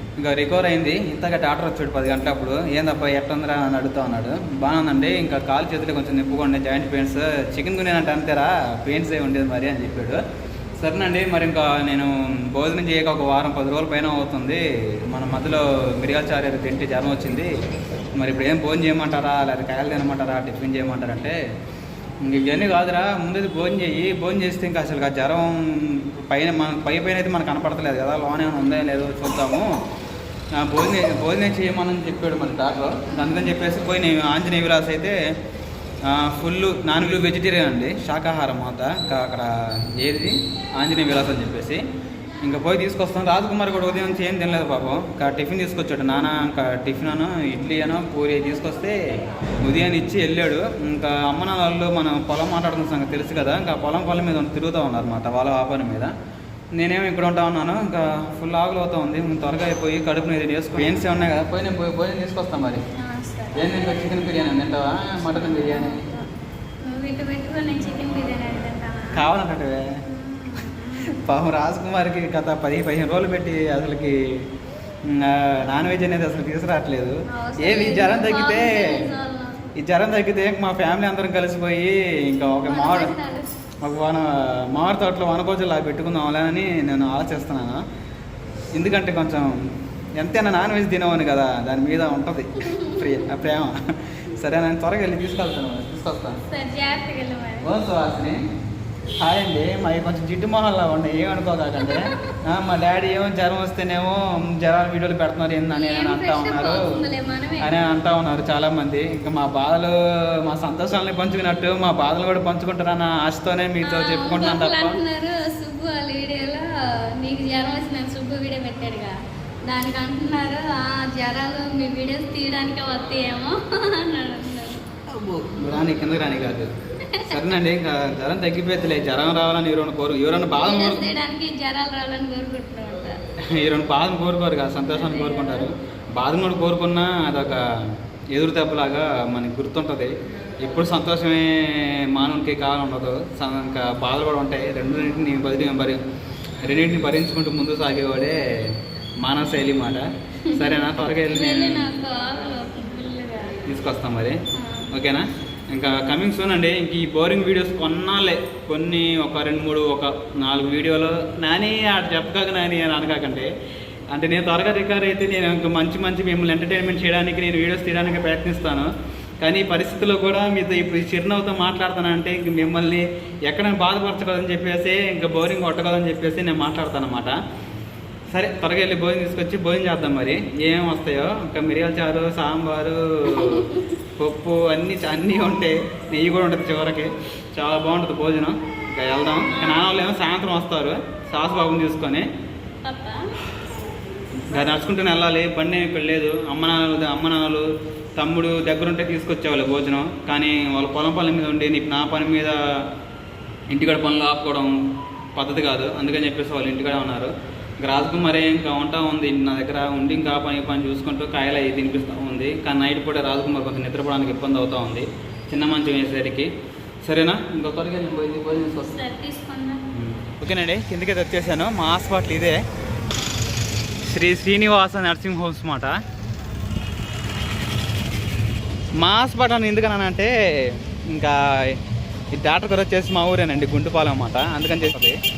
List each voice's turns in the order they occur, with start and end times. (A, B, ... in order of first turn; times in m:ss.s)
0:00.2-0:10.2 A
0:10.8-0:17.6 A
0:18.2-0:21.4 A
0:22.2-0:29.7 A
0:30.6-0:35.2 A
0:36.0-0:41.8 A
0:42.4-0:56.1 A
0:56.8-1:02.8 A
1:03.0-1:03.8 B
1:03.5-1:06.1 A
1:05.3-1:06.3 B
1:06.8-1:09.2 B
1:09.1-1:09.8 A
1:10.1-1:11.1 B
1:10.9-1:14.5 A
1:15.1-1:19.0 A
1:17.3-1:19.6 B
1:19.8-1:23.2 A
1:22.6-1:23.5 B
1:23.8-1:27.8 A
1:28.7-1:29.6 A
1:30.2-1:36.4 A
1:32.7-1:33.3 B
1:36.5-1:37.7 B
1:37.6-1:38.4 A
1:39.2-1:47.0 A
1:41.8-1:42.2 B
1:45.7-1:47.7 B
1:47.6-1:55.0 A
1:53.8-2:05.0 B
2:05.1-2:11.0 A
2:07.0-2:07.4 B
2:10.5-2:13.2 B
2:13.5-2:26.0 A
2:14.9-2:15.7 B
2:26.6-2:31.9 A
2:30.5-2:33.6 B
2:33.6-2:43.5 A
2:34.5-2:34.9 B
2:44.1-2:57.4 A
2:58.3-3:12.3 A
3:03.3-3:03.8 B
3:09.4-3:10.0 B
3:12.8-3:13.3 B
3:14.4-3:22.6 A
3:23.7-3:24.8 A
3:25.4-3:36.5 A
3:37.0-3:39.0 A
3:38.5-3:39.8 B
3:39.9-3:42.6 A
3:44.0-3:46.0 A
3:49.0-3:51.8 A
3:52.3-3:55.2 A